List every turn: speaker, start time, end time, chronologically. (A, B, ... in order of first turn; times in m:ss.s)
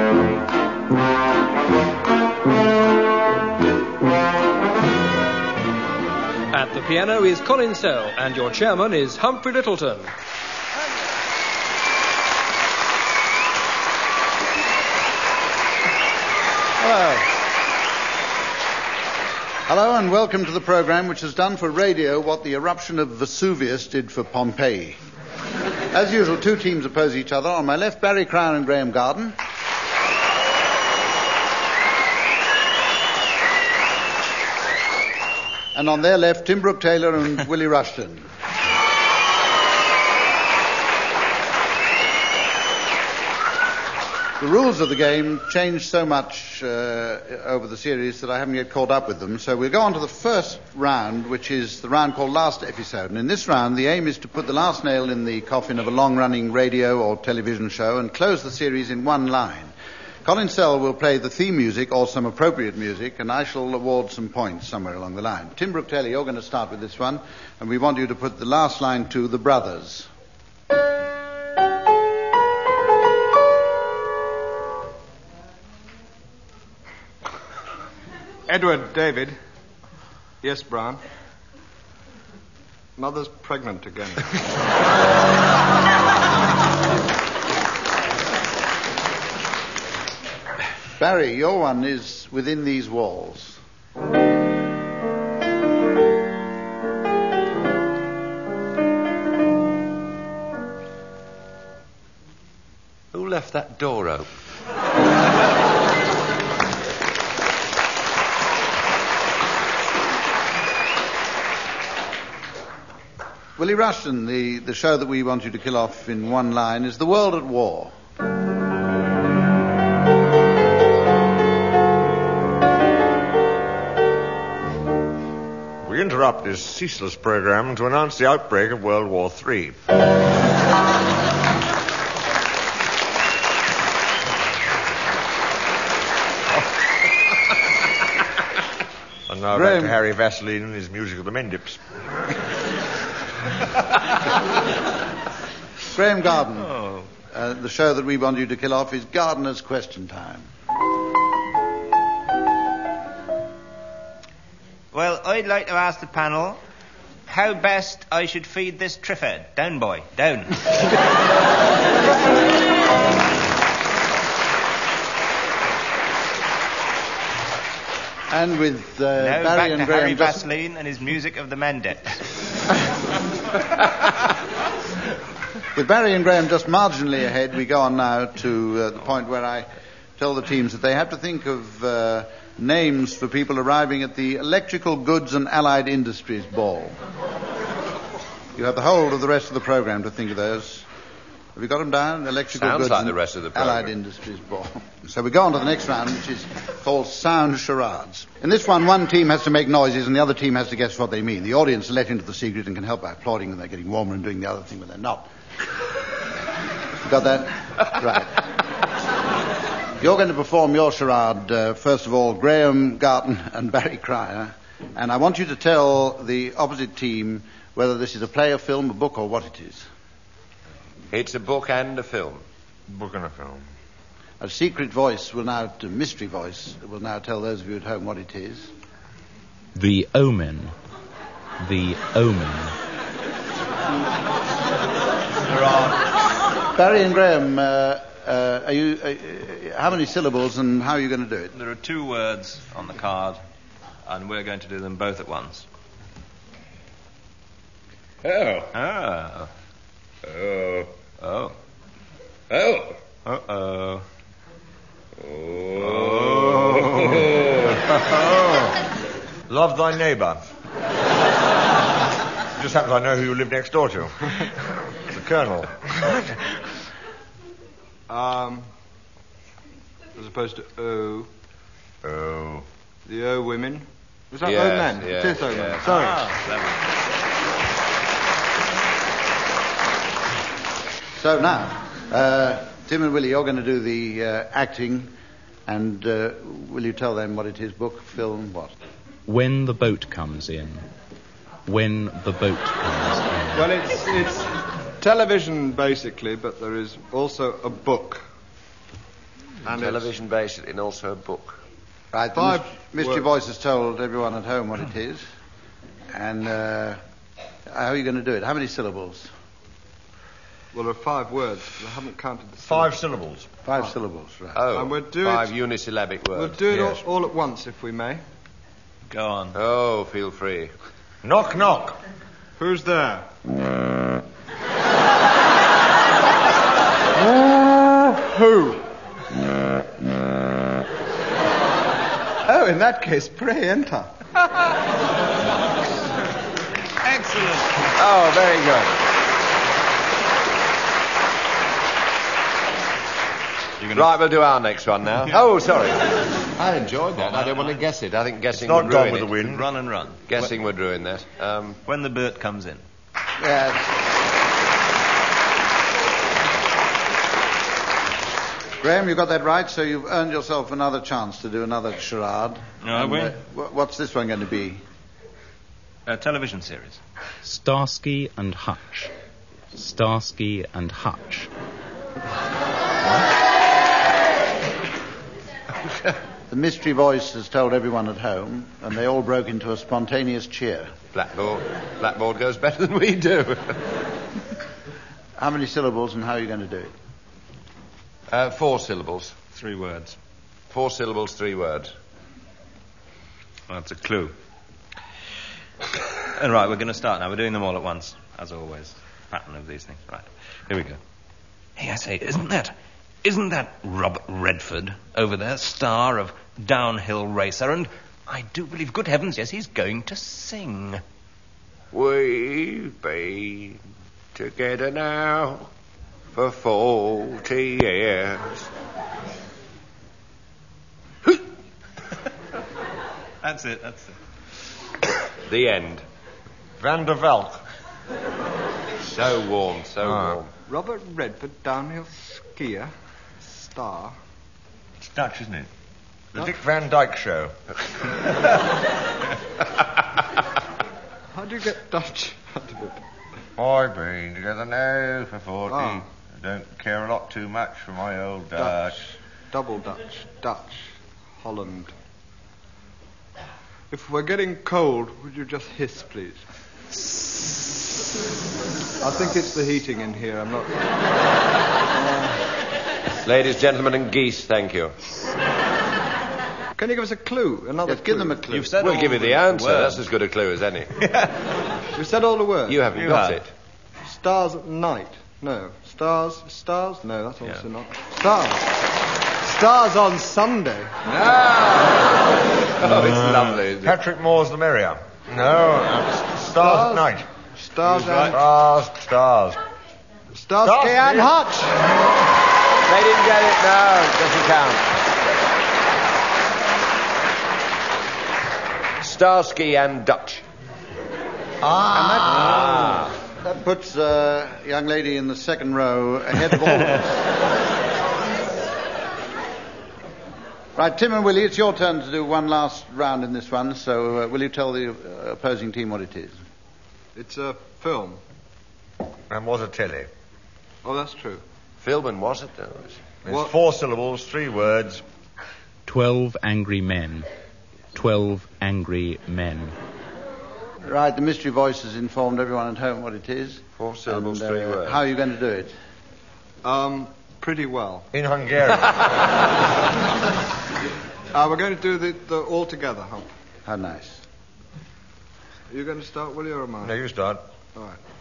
0:06.5-0:10.1 A
0:16.8-0:17.3 B
0:19.7-0:25.0 B
0:25.9-0:29.4 B
0:35.7-0:38.2 B
0:44.4-0:59.7 B
1:00.2-1:10.1 B
1:18.5-1:19.4 C
1:20.4-1:21.0 C
1:23.0-1:24.3 C
1:31.0-1:33.6 B
1:43.1-1:44.3 D
1:53.6-1:57.9 B
2:05.8-2:09.8 E
2:19.3-2:21.8 E
2:19.5-2:20.0 B
2:25.9-2:26.8 B
2:26.6-2:27.1 F
2:27.3-2:30.5 B
2:34.9-2:36.6 F
2:37.3-2:40.9 F
2:48.3-2:50.4 B
2:49.2-2:52.3 F
2:55.7-3:07.0 B
3:08.5-3:10.8 B
3:11.5-3:25.3 B
3:12.6-3:13.9 D
3:27.0-3:28.4 B
3:30.0-3:39.8 B
3:41.1-3:42.4 D
3:42.9-3:43.6 E
3:44.4-3:48.7 B
3:49.8-3:50.7 G
3:51.6-3:52.7 G
3:55.5-3:55.9 F
3:56.7-4:01.5 B
4:01.5-4:03.4 F
4:04.1-4:05.6 F
4:08.2-4:08.7 D
4:08.7-4:09.5 F
4:10.3-4:10.9 D
4:11.2-4:11.5 F
4:12.5-4:13.0 D
4:13.2-4:14.0 F
4:15.2-4:18.0 D
4:15.8-4:17.4 F
4:19.5-4:20.4 E
4:22.6-4:24.5 E
4:25.1-4:26.4 E
4:28.1-4:28.7 C
4:30.2-4:31.3 C
4:32.0-4:32.6 E
4:33.0-4:36.2 C
4:34.4-4:36.0 D
4:35.8-4:36.8 F
4:41.2-4:45.1 B
4:45.7-4:48.7 B
4:49.3-4:50.8 G
4:51.6-4:53.7 G
4:53.5-4:58.2 C
4:59.6-5:00.1 C
4:59.6-5:01.6 D
5:02.1-5:05.2 B
5:02.3-5:03.3 C
5:06.1-5:07.0 B
5:07.7-5:09.3 B
5:10.7-5:12.9 C
5:12.6-5:13.5 E
5:13.6-5:14.6 B
5:14.5-5:16.6 D
5:14.7-5:15.5 C
5:16.3-5:18.2 C
5:19.1-5:19.6 F
5:19.5-5:20.7 D
5:21.2-5:22.0 E
5:22.6-5:23.3 C
5:27.2-5:28.9 C
5:32.4-5:34.1 C
5:37.0-5:37.9 F
5:37.9-5:39.0 D
5:43.8-5:44.1 F
5:43.9-5:49.3 D
5:48.5-5:49.6 E
5:49.4-5:50.5 F
5:50.3-5:51.8 D
5:51.8-5:52.8 F
5:53.4-5:53.9 B
5:58.8-6:04.8 B
6:02.8-6:03.3 F
6:06.0-6:07.0 F
6:07.4-6:09.1 G
6:09.7-6:11.5 G
6:16.5-6:20.9 B
6:21.1-6:23.8 D
6:25.4-6:26.9 B
6:28.3-6:29.4 D
6:29.5-6:30.2 F
6:30.7-6:31.9 D
6:33.7-6:34.3 F
6:36.3-6:41.0 F
6:41.8-6:51.0 F
6:51.9-6:53.8 D
6:54.3-6:55.7 D
6:56.3-6:58.7 D
7:03.4-7:04.2 F
7:05.4-7:06.0 D
7:06.8-7:07.6 E
7:09.0-7:10.5 D
7:10.0-7:10.4 E
7:10.7-7:14.2 C
7:15.0-7:15.7 E
7:16.3-7:17.5 E
7:21.3-7:23.0 C
7:23.6-7:29.0 E
7:25.7-7:26.0 C
7:28.6-7:29.0 C
7:29.5-7:31.9 C
7:33.9-7:36.4 C
7:39.0-7:40.7 C
7:41.9-7:42.4 C
7:43.2-7:44.9 D
7:46.8-7:48.5 C
7:47.8-7:48.8 B
7:48.5-7:50.0 F
7:48.8-7:50.9 D
7:51.0-7:51.4 F
7:51.9-7:52.8 C
7:52.7-7:53.5 D
7:52.9-7:53.4 F
7:54.0-7:58.7 C
7:59.4-8:01.0 C
8:01.0-8:04.0 D
8:03.8-8:07.3 E
8:06.5-8:08.4 C
8:07.8-8:08.3 F
8:08.3-8:09.6 E
8:10.3-8:11.9 C
8:10.6-8:11.3 E
8:12.8-8:14.9 D
8:19.0-8:20.4 D
8:21.6-8:22.8 E
8:21.9-8:27.1 B
8:22.3-8:23.1 D
8:30.8-8:36.4 B
8:37.1-8:38.2 C
8:39.3-8:40.1 E
8:40.8-8:41.4 C
8:41.8-8:43.0 D
8:43.2-8:45.0 E
8:43.3-8:43.5 C
8:45.8-8:47.3 G
8:47.9-8:49.7 G
8:50.8-8:55.7 B
8:53.8-8:55.0 D
8:56.6-8:58.1 C
8:58.1-8:59.1 E
9:01.3-9:03.3 C
9:03.6-9:04.2 B
9:05.7-9:06.9 C
9:06.8-9:07.4 E
9:07.7-9:08.0 C